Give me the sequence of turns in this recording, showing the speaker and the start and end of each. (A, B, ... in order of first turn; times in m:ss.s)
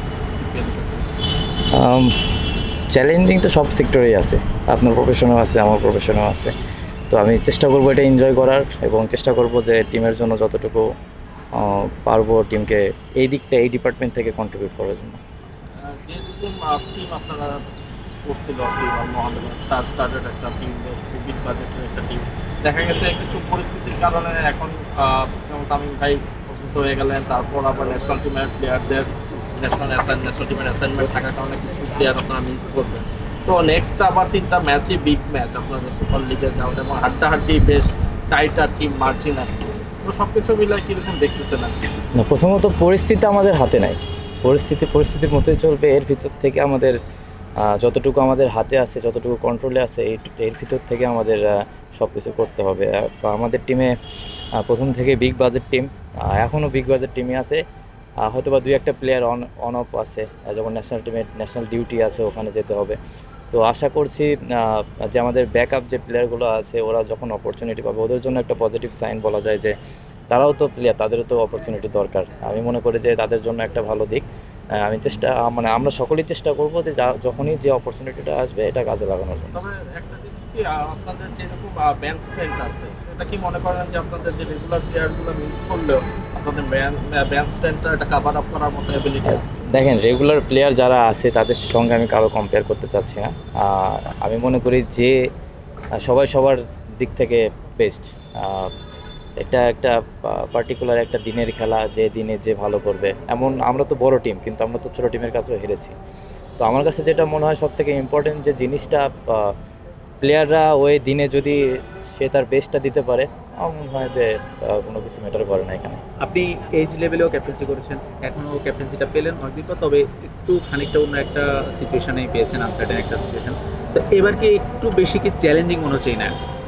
0:00.3-0:01.1 A
0:01.7-0:02.2 B
0:02.9-0:06.5 B
0:07.1-0:10.9 B
0:11.5-0:15.2 B
0:15.8-0:17.6 A
0:18.2-0:42.0 A
0:42.2-0:47.0 B
0:47.6-0:54.0 B
0:54.6-0:57.6 B
0:58.2-1:03.0 B
1:03.5-1:09.8 B
1:10.3-1:19.6 B
1:19.5-1:29.7 A
1:29.3-1:35.3 B
1:36.0-1:38.7 B
1:39.4-1:46.0 B
1:46.6-1:49.5 B
1:50.2-1:51.6 B
1:52.1-1:56.0 B
1:56.2-2:06.3 C